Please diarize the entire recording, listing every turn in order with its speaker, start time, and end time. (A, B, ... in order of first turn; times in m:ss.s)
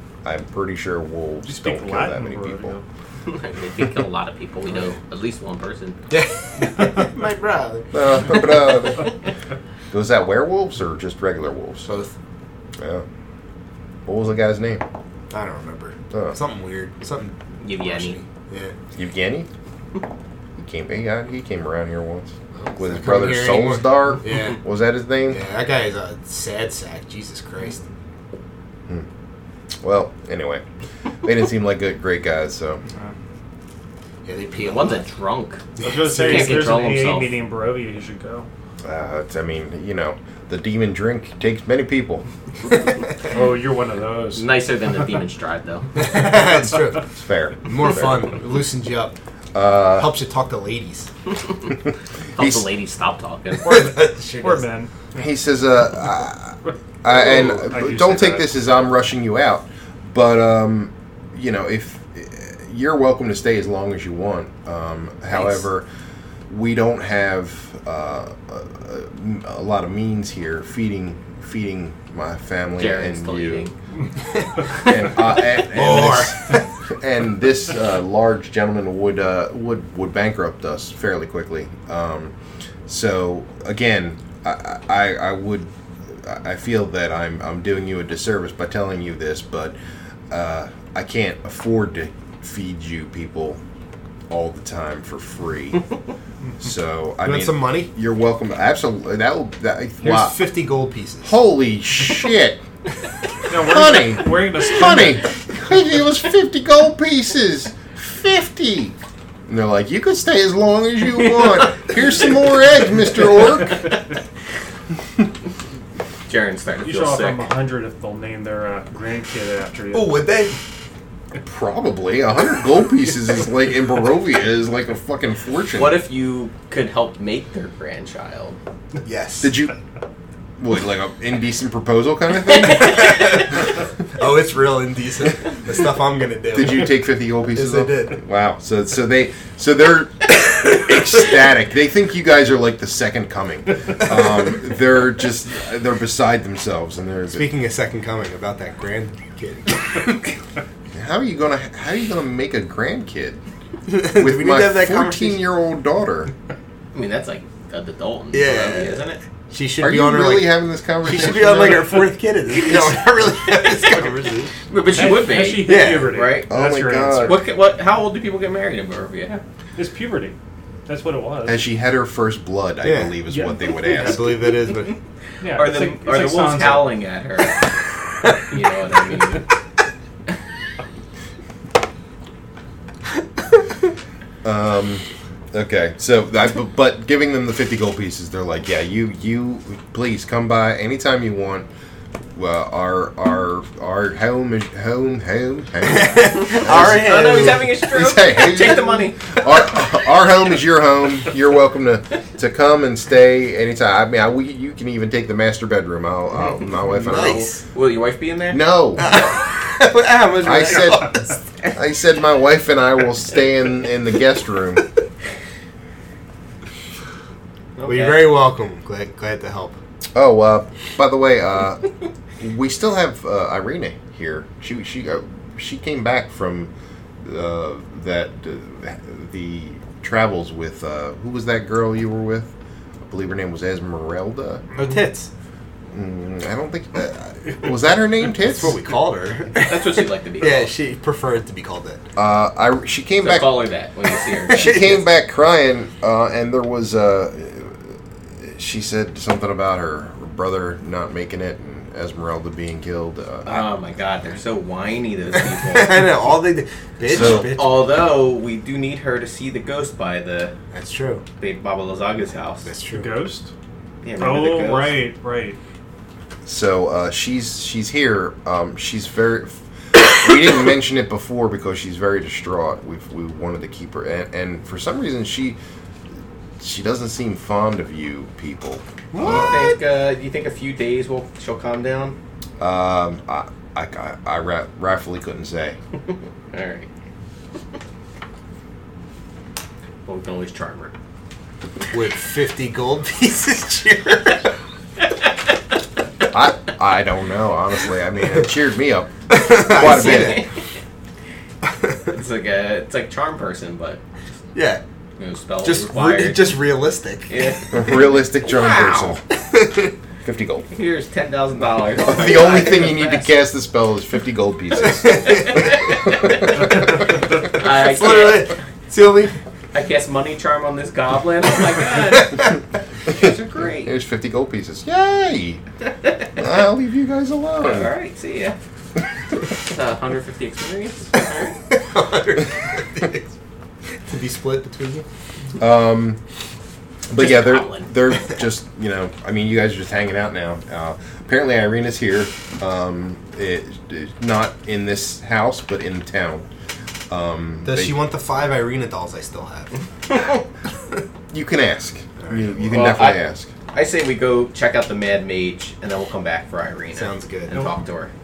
0:00.2-0:02.8 A
0:01.4-0:02.8 B
0:03.3-0:06.0 C
0:06.1-0:08.0 D
0:06.7-0:07.1 B
0:07.9-0:09.1 A
0:09.9-0:11.9 A
0:11.8-0:12.1 D
0:12.8-0:13.0 A
0:14.0-0:14.8 A
0:15.3-0:18.7 D
0:16.1-0:16.4 A
0:17.6-0:18.2 C
0:19.0-0:19.5 A
0:20.6-0:25.4 A
0:22.5-0:24.6 D
0:25.3-0:27.8 D
0:29.8-0:30.6 A
0:31.2-0:32.8 A
0:34.2-0:35.0 D
0:34.6-0:35.6 C
0:35.8-0:36.6 D
0:35.8-0:38.5 B
0:36.2-0:37.4 C
0:38.8-0:42.2 A
0:43.3-0:44.5 B
0:44.3-0:45.9 C
0:46.0-0:47.0 D
0:47.2-0:48.2 A
0:47.6-0:49.2 D
0:49.5-0:50.1 A
0:49.8-0:51.1 D
0:52.4-0:53.8 C
0:52.4-0:52.6 A
0:53.6-0:54.9 B
0:53.6-0:54.7 D
0:55.1-1:05.8 A
0:57.1-0:58.5 B
1:06.5-1:13.7 A
1:12.8-1:13.7 C
1:14.8-1:22.3 A
1:15.5-1:16.5 D
1:22.9-1:29.8 A
1:30.3-1:33.6 A
1:34.3-1:35.8 A
1:36.6-1:40.4 A
1:37.2-1:37.9 D
1:40.0-1:41.3 D
1:41.2-1:42.6 A
1:43.5-1:45.3 B
1:43.5-1:48.9 A
1:49.5-1:53.9 A
1:56.3-1:57.5 C
1:56.8-2:00.2 B
1:59.9-2:00.6 D
2:01.4-2:06.0 A
2:05.7-2:08.6 C
2:09.0-2:09.5 D
2:09.4-2:09.7 A
2:10.6-2:13.3 A
2:12.7-2:13.6 D
2:14.1-2:18.2 D
2:16.5-2:27.5 A
2:27.3-2:30.3 D
2:30.9-2:33.4 A
2:33.9-2:35.4 D
2:34.0-2:36.3 A
2:36.9-2:39.2 C
2:38.3-2:44.6 D
2:39.8-2:42.0 A
2:43.5-2:44.0 C
2:44.7-2:46.5 C
2:44.9-2:47.4 B
2:45.5-2:46.2 D
2:46.5-2:47.4 A
2:47.2-2:49.4 C
2:49.3-2:51.6 B
2:51.4-2:54.5 A
2:52.8-2:53.2 D
2:53.3-2:54.0 B
2:53.9-2:55.0 D
2:55.4-2:56.9 B
2:55.5-2:57.7 C
2:58.4-2:59.5 C
3:04.4-3:11.7 A
3:12.3-3:27.4 A
3:15.8-3:17.8 D
3:16.5-3:19.2 C
3:26.9-3:28.6 C
3:27.0-3:27.6 D
3:28.5-3:29.2 A
3:29.0-3:31.4 D
3:30.4-3:34.9 A
3:37.8-3:38.3 C
3:37.8-3:39.8 D
3:40.1-3:41.9 A
3:42.4-3:46.7 A
3:47.2-3:52.5 A
3:53.1-3:54.6 A
3:54.8-3:55.3 D
3:55.9-3:58.8 A
3:58.4-4:02.0 D
3:59.6-4:00.7 C
4:02.2-4:03.6 A
4:03.2-4:05.0 C
4:04.5-4:05.0 D
4:04.5-4:13.6 A
4:13.4-4:16.0 C
4:15.6-4:17.8 D
4:17.1-4:17.5 A
4:17.1-4:20.5 C
4:20.7-4:21.2 D
4:21.4-4:22.7 C
4:22.6-4:23.2 D
4:22.9-4:23.5 B
4:24.0-4:25.0 C
4:24.2-4:25.6 B
4:26.4-4:35.6 A
4:36.6-4:39.6 A
4:39.1-4:39.7 D
4:39.2-4:42.2 C
4:42.6-4:45.8 A
4:46.5-4:46.9 C
4:50.0-4:50.9 C
4:51.9-4:54.5 D
4:56.3-5:00.4 A
4:59.3-5:00.4 D
4:59.8-5:00.5 C
5:02.1-5:04.0 C
5:04.5-5:04.8 D
5:05.2-5:06.6 C
5:05.6-5:07.3 D
5:07.3-5:09.2 C
5:07.7-5:09.2 A
5:09.4-5:09.9 D
5:10.2-5:10.7 A
5:10.7-5:13.4 C
5:12.0-5:16.3 A
5:15.1-5:15.5 D
5:15.4-5:16.3 C
5:17.4-5:19.3 D
5:17.5-5:18.6 C
5:19.7-5:22.6 C
5:23.1-5:23.9 C
5:23.8-5:25.6 A
5:26.4-5:27.9 A
5:27.6-5:28.6 C
5:29.6-5:31.6 C
5:31.7-5:33.3 D
5:34.1-5:35.0 D
5:35.6-5:36.2 A
5:37.1-5:46.4 A
5:37.1-5:37.9 C
5:47.1-5:48.0 A
5:47.6-5:49.7 D
5:51.3-5:53.5 A
5:52.2-5:52.5 D
5:52.7-5:58.1 C
5:56.9-5:57.7 D